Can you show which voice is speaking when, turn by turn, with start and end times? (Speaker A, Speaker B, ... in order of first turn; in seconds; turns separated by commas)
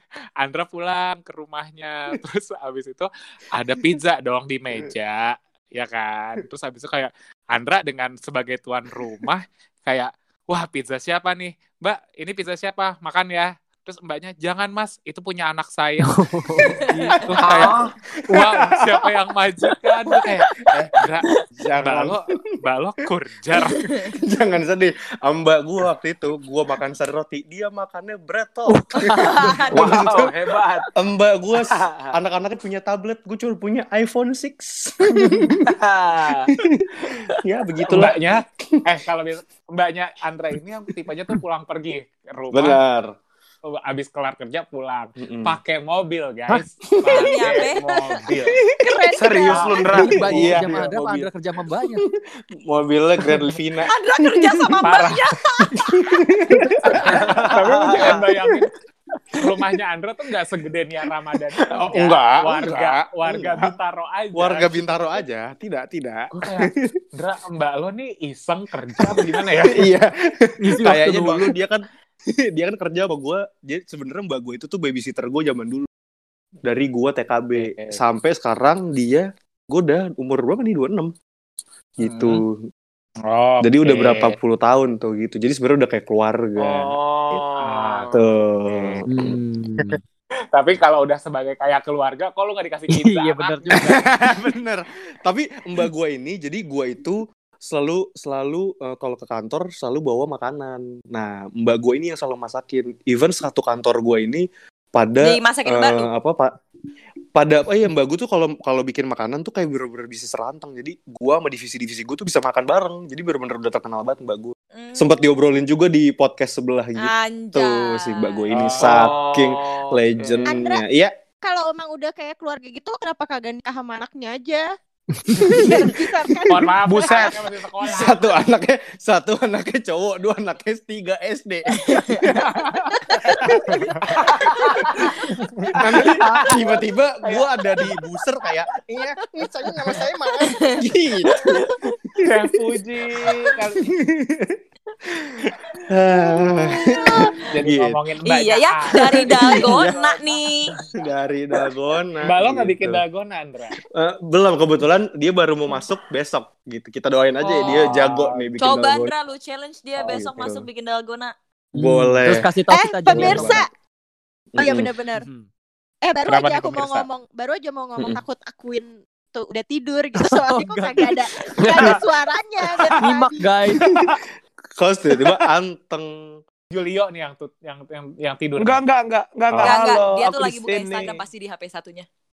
Speaker A: 0.4-17.8, Speaker B: 16.1-17.7, Speaker C: 17.4-17.9, Speaker D: 18.2-19.1, Speaker A: 18.3-21.3, Speaker D: 20.1-20.9, Speaker D: 21.5-22.2, Speaker A: 21.8-23.8, Speaker D: 23.6-30.4, Speaker B: 28.7-29.6, Speaker E: 29.0-29.9, Speaker C: 29.7-30.9, Speaker D: 30.9-35.7, Speaker C: 31.6-32.1, Speaker C: 35.7-36.5, Speaker D: 36.5-38.8, Speaker A: 37.9-42.8, Speaker D: 42.5-43.2, Speaker A: 43.7-48.5, Speaker D: 45.2-45.6, Speaker D: 47.0-49.1, Speaker E: 47.1-47.8, Speaker B: 48.9-52.0, Speaker C: 49.2-50.6, Speaker A: 49.5-49.8, Speaker D: 49.8-54.9, Speaker A: 50.4-50.8, Speaker E: 53.9-56.2, Speaker A: 54.8-55.3, Speaker D: 55.7-58.6, Speaker A: 56.6-58.7, Speaker C: 57.1-58.3, Speaker A: 59.4-65.0, Speaker D: 61.8-63.7, Speaker D: 64.3-67.0, Speaker A: 66.3-69.9, Speaker D: 69.0-71.8, Speaker B: 70.6-71.5, Speaker D: 72.5-75.9, Speaker D: 76.6-81.1, Speaker A: 77.6-78.0, Speaker D: 82.0-82.6, Speaker A: 82.0-82.4, Speaker A: 83.3-84.4, Speaker D: 83.6-87.4, Speaker C: 86.6-88.2, Speaker A: 87.6-88.1, Speaker D: 88.1-89.3, Speaker A: 88.7-89.0, Speaker B: 89.1-90.0, Speaker A: 90.5-94.0, Speaker B: 92.9-94.1, Speaker D: 93.8-106.5, Speaker E: 105.2-106.1, Speaker D: 107.3-121.1, Speaker E: 114.7-115.3, Speaker E: 117.0-118.6, Speaker A: 118.5-119.1, Speaker C: 118.7-120.6, Speaker F: 120.5-120.8, Speaker F: 121.4-124.7, Speaker B: 125.3-125.5, Speaker F: 125.4-127.3, Speaker D: 125.4-126.0, Speaker A: 126.5-128.2, Speaker C: 126.8-127.3, Speaker D: 127.8-133.8, Speaker F: 132.9-135.0, Speaker A: 133.7-134.1, Speaker C: 134.2-134.6, Speaker D: 134.4-135.1, Speaker A: 135.3-135.7, Speaker D: 135.7-141.5, Speaker C: 135.8-136.6, Speaker A: 137.2-137.5, Speaker E: 140.4-140.8, Speaker D: 142.0-142.5, Speaker A: 142.2-143.8, Speaker D: 143.5-144.6, Speaker D: 145.1-148.0, Speaker A: 147.5-149.8, Speaker E: 148.2-150.8, Speaker D: 149.2-150.0, Speaker C: 149.8-150.3, Speaker D: 150.9-153.0, Speaker A: 152.2-153.8, Speaker D: 153.9-159.1, Speaker A: 157.5-158.4, Speaker E: 158.6-161.3, Speaker D: 160.0-160.7, Speaker D: 161.8-162.5, Speaker B: 161.8-163.7, Speaker F: 162.7-163.7, Speaker D: 163.1-163.6, Speaker D: 164.5-164.9, Speaker F: 164.6-165.3, Speaker B: 165.2-165.5, Speaker F: 166.0-173.4, Speaker A: 166.3-167.1, Speaker B: 170.2-172.0, Speaker D: 171.7-172.0, Speaker D: 172.8-173.2, Speaker B: 172.9-173.8, Speaker D: 173.8-174.2, Speaker D: 174.8-176.4, Speaker A: 176.7-178.8, Speaker C: 178.6-181.2, Speaker D: 179.5-180.0, Speaker E: 179.6-182.1